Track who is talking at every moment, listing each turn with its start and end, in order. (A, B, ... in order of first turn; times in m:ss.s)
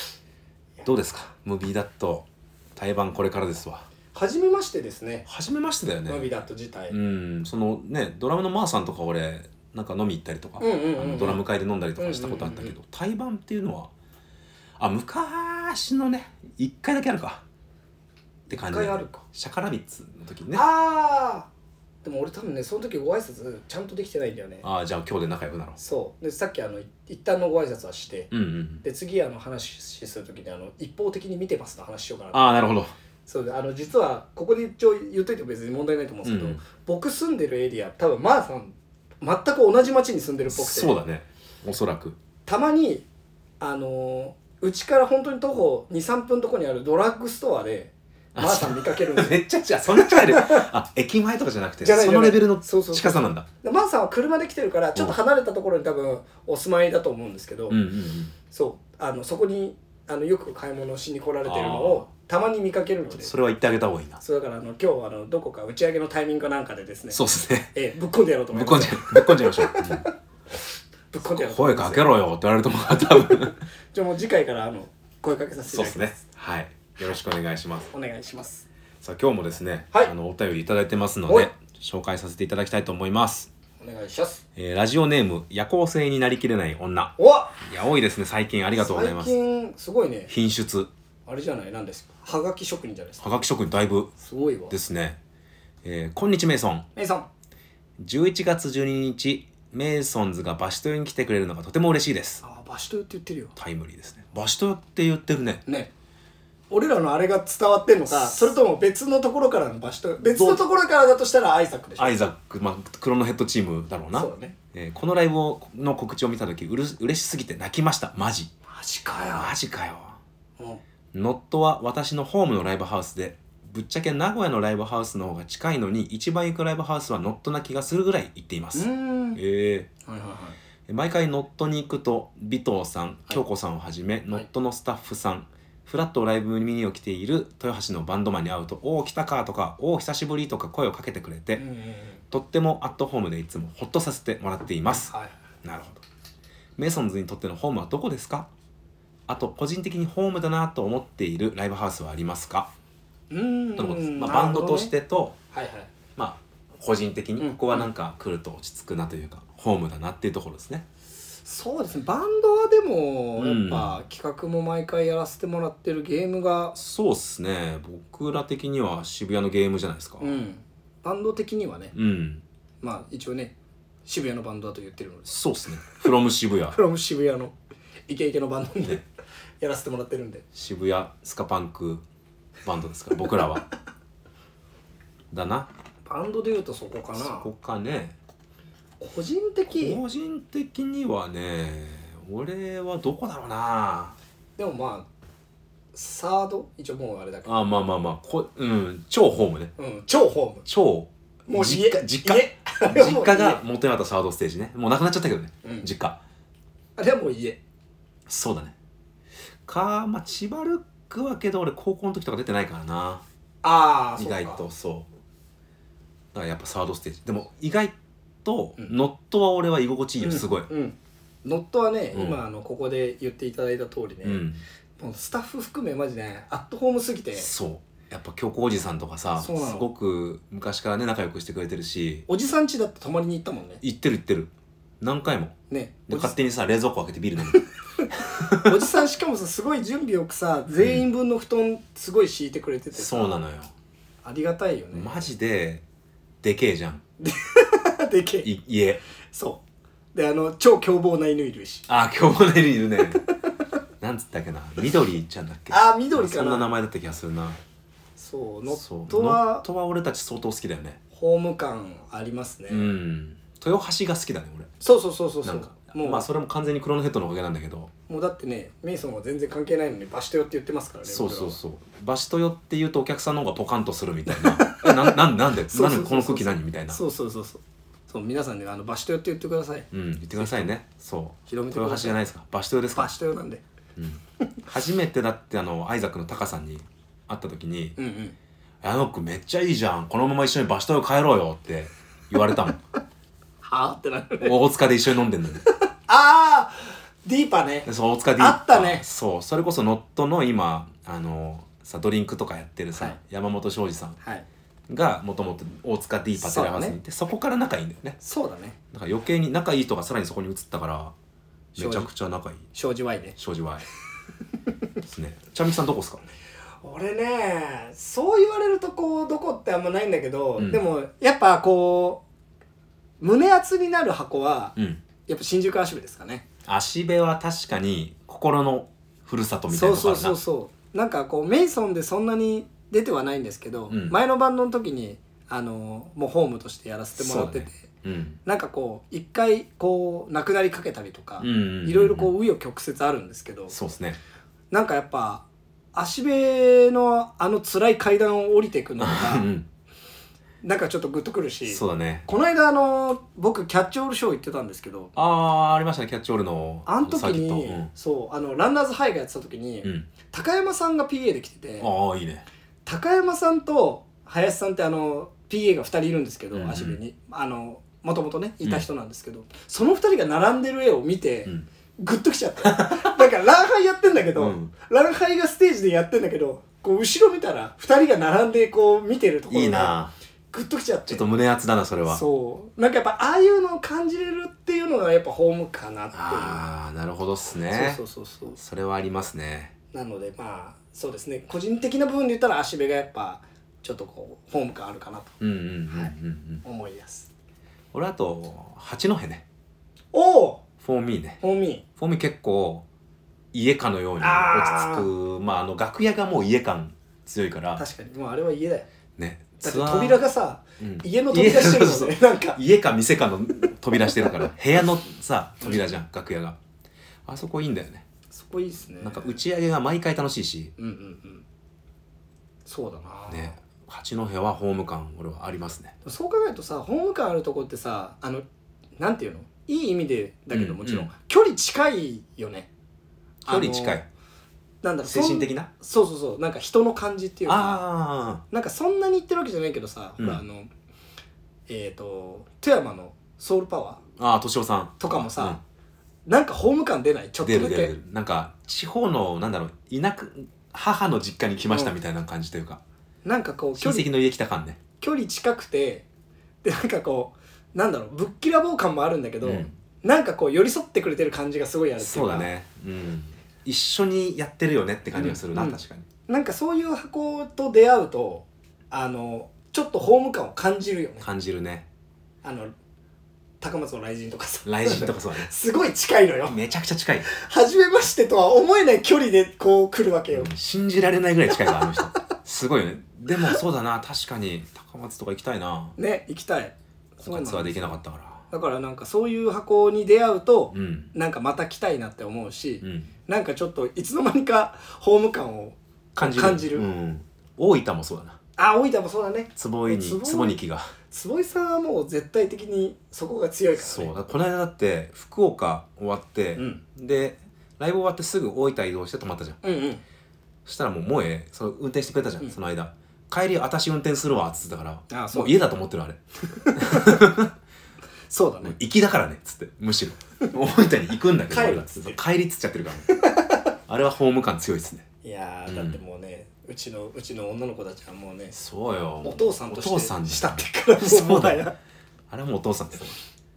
0:00.8-0:03.8 A
0:04.1-0:05.2 B
0:05.2-0:06.3 A
0:06.1-0:07.0 B
0:06.9-0:13.9 A
0:10.6-0:11.4 B
0:12.0-0:12.8 B
0:14.8-0:17.4 A
0:18.5-0:19.2 B
0:18.5-0:20.6 A
0:20.5-0:21.5 B
0:22.0-0:24.6 B
0:24.6-0:25.8 A
0:25.8-0:28.3 B
0:28.3-0:28.8 A
0:28.8-0:32.5 B
0:32.3-0:32.9 A
0:33.2-0:40.9 B
0:36.2-0:36.6 A
0:40.5-0:42.2 A
0:42.4-0:43.0 B
0:43.6-0:49.4 B
0:48.3-0:53.5 A
0:49.9-0:50.7 B
0:51.8-0:53.1 B
0:53.6-0:57.8 B
0:57.7-0:58.3 A
0:58.5-1:03.3 B
1:01.4-1:02.1 A
1:03.1-1:04.2 A
1:04.2-1:07.2 B
1:07.1-1:07.7 A
1:07.7-1:10.1 B
1:08.5-1:10.1 A
1:11.1-1:12.1 B
1:11.2-1:13.6 A
1:13.1-1:16.2 B
1:15.7-1:17.9 A
1:17.9-1:18.6 B
1:19.0-1:23.5 A
1:23.8-1:24.4 B
1:24.6-1:29.3 A
1:27.2-1:27.6 B
1:28.8-1:30.3 B
1:30.3-1:30.9 A
1:31.3-1:33.2 B
1:33.2-1:34.1 A
1:34.2-1:34.8 B
1:34.7-1:35.2 A
1:35.8-1:36.8 A
1:36.9-1:37.2 B
1:38.0-1:42.4 A
1:42.4-1:43.5 B
1:43.6-1:45.6 A
1:46.7-1:52.2 B
1:50.2-1:50.6 A
1:52.0-1:58.5 A
1:54.1-1:54.5 B
1:58.7-1:59.5 B
1:59.3-2:00.2 A
2:01.1-2:09.9 A
2:08.7-2:09.4 B
2:10.0-2:10.6 B
2:10.9-2:21.6 A
2:21.6-2:22.2 B
2:22.3-2:25.1 A
2:25.0-2:25.4 B
2:25.6-2:26.0 A
2:26.8-2:28.5 A
2:29.3-2:32.7 A
2:33.3-2:34.9 B
2:33.8-2:35.4 A
2:35.5-2:35.9 B
2:36.2-2:40.8 A
2:37.4-2:37.9 B
2:41.4-2:46.8 B
2:43.4-2:44.0 A
2:46.8-2:50.3 A
2:50.2-2:51.9 B
2:51.9-2:52.4 A
2:52.8-2:53.5 B
2:54.0-2:55.3 B
2:55.2-2:56.8 A
2:56.7-2:57.5 B
2:58.1-2:59.0 B
2:59.6-3:00.4 B
3:00.5-3:02.0 A
3:02.6-3:03.7 A
3:05.3-3:05.7 A
3:06.0-3:07.5 B
3:07.1-3:08.1 A
3:09.0-3:10.0 B
3:09.7-3:14.2 A
3:14.6-3:15.1 B
3:15.9-3:17.5 B
3:17.4-3:19.7 A
3:19.8-3:20.6 B
3:20.6-3:26.2 A
3:21.5-3:23.6 B
3:25.6-3:25.9 B
3:27.0-3:27.6 B
3:28.3-3:28.7 A
3:29.6-3:33.2 A
3:33.6-3:34.6 B
3:34.2-3:35.1 A
3:36.3-3:40.7 A
3:40.2-3:44.4 B
3:42.1-3:42.4 A
3:44.2-3:44.6 A
3:45.0-3:47.5 B
3:47.4-3:52.3 A
3:49.4-3:49.9 B
3:52.3-3:53.8 B
3:53.8-3:55.6 A
3:55.7-3:56.4 B
3:56.1-3:57.6 A
3:57.5-4:03.4 B
3:58.2-3:58.9 A
4:00.8-4:01.0 A
4:02.9-4:03.7 A
4:04.2-4:05.3 B
4:04.9-4:05.8 A
4:06.4-4:07.0 A
4:07.2-4:08.5 B
4:08.4-4:09.0 A
4:09.3-4:09.6 B
4:10.1-4:11.9 B
4:11.9-4:13.2 A
4:14.0-4:17.6 A
4:15.7-4:16.7 B
4:18.2-4:19.6 B
4:18.7-4:21.0 A
4:21.1-4:22.9 B
4:22.7-4:24.7 A
4:24.8-4:26.3 B
4:25.4-4:27.9 A
4:28.1-4:31.6 B
4:31.1-4:37.0 A
4:34.3-4:40.7 B
4:39.9-4:43.1 A
4:41.5-4:42.2 B
4:42.9-4:43.6 B
4:44.0-4:48.0 A
4:48.0-4:48.4 B
4:48.8-4:52.8 A
4:53.6-4:54.6 B
4:54.4-4:55.6 A
4:56.1-4:59.0 B
4:57.8-5:04.2 A
5:04.9-5:08.2 A
5:06.4-5:07.0 B
5:08.2-5:08.8 B
5:08.9-5:11.1 A
5:11.8-5:12.7 A
5:11.8-5:12.1 B
5:12.7-5:13.4 B
5:13.4-5:13.8 A
5:15.0-5:16.2 A
5:16.8-5:22.2 B
5:20.6-5:20.8 A
5:23.2-5:24.8 B
5:24.8-5:25.0 A
5:25.3-5:26.4 B
5:26.6-5:30.4 A
5:29.7-5:37.8 B
5:33.9-5:34.2 A
5:37.2-5:38.4 A
5:38.4-5:43.8 B
5:41.4-5:42.3 A
5:43.7-5:44.2 A
5:44.7-5:49.5 B
5:49.0-5:49.7 A
5:50.6-5:55.1 B
5:51.7-5:52.2 A
5:55.1-5:57.9 A
5:56.8-6:01.9 B
5:59.8-6:00.1 A
6:01.8-6:02.4 A
6:02.8-6:20.0 B
6:06.5-6:07.0 A
6:12.6-6:13.2 A
6:14.4-6:14.7 A
6:19.5-6:20.1 A
6:20.5-6:21.3 B
6:21.1-6:22.2 A
6:22.1-6:26.6 B
6:26.1-6:28.0 A
6:27.7-6:28.6 B
6:28.6-6:29.7 A
6:29.9-6:35.4 B
6:35.4-6:36.6 A
6:35.9-6:37.3 B
6:37.9-6:39.4 A
6:40.1-6:40.6 B
6:40.8-6:41.4 A
6:41.4-6:41.8 B
6:42.0-6:42.8 A
6:43.5-6:47.8 A
6:44.2-6:45.1 B
6:47.8-6:48.9 B
6:49.2-6:50.2 A
6:49.6-6:52.6 B
6:50.8-6:56.6 A
6:54.1-6:54.4 B
6:57.2-6:58.0 A
6:58.3-6:59.4 B
6:59.0-7:00.7 A
7:00.8-7:01.4 B
7:02.6-7:03.6 B
7:03.3-7:05.9 A
7:06.0-7:08.4 B
7:09.0-7:12.7 B
7:10.5-7:11.1 A
7:13.4-7:14.0 B
7:13.4-7:14.1 A
7:14.8-7:17.8 B
7:15.0-7:15.7 A
7:17.4-7:18.4 A
7:18.5-7:20.7 B
7:21.7-7:24.0 B
7:24.2-7:25.6 A
7:25.0-7:25.6 B
7:26.2-7:27.9 B
7:27.4-7:32.8 A
7:33.2-7:34.1 B
7:33.8-7:34.8 A
7:35.0-7:36.0 B
7:36.6-7:42.5 B
7:39.4-7:39.7 A
7:42.0-7:46.1 A
7:45.1-7:51.2 B
7:51.2-7:51.9 A
7:52.4-7:52.7 B
7:53.6-7:56.6 B
7:54.6-7:55.5 A
7:56.5-7:57.3 A
7:57.3-8:00.5 B
8:00.3-8:06.0 A
8:06.0-8:08.0 B
8:07.2-8:08.4 A
8:08.5-8:16.8 B
8:10.7-8:11.1 A
8:12.8-8:13.1 A
8:16.2-8:18.4 A
8:18.6-8:24.1 B
8:19.6-8:20.9 A
8:23.8-8:29.6 A
8:26.5-8:26.8 B
8:29.6-8:30.0 B
8:30.6-8:36.2 A
8:35.1-8:35.6 B
8:36.5-8:37.3 B
8:36.7-8:37.5 A
8:38.3-8:38.8 B
8:38.6-8:43.1 A
8:41.5-8:42.2 B
8:43.1-8:43.7 B
8:43.9-8:45.0 A
8:45.2-8:48.6 B
8:45.7-8:46.0 A
8:48.5-8:51.6 A
8:49.2-8:51.7 B
8:52.3-8:53.2 A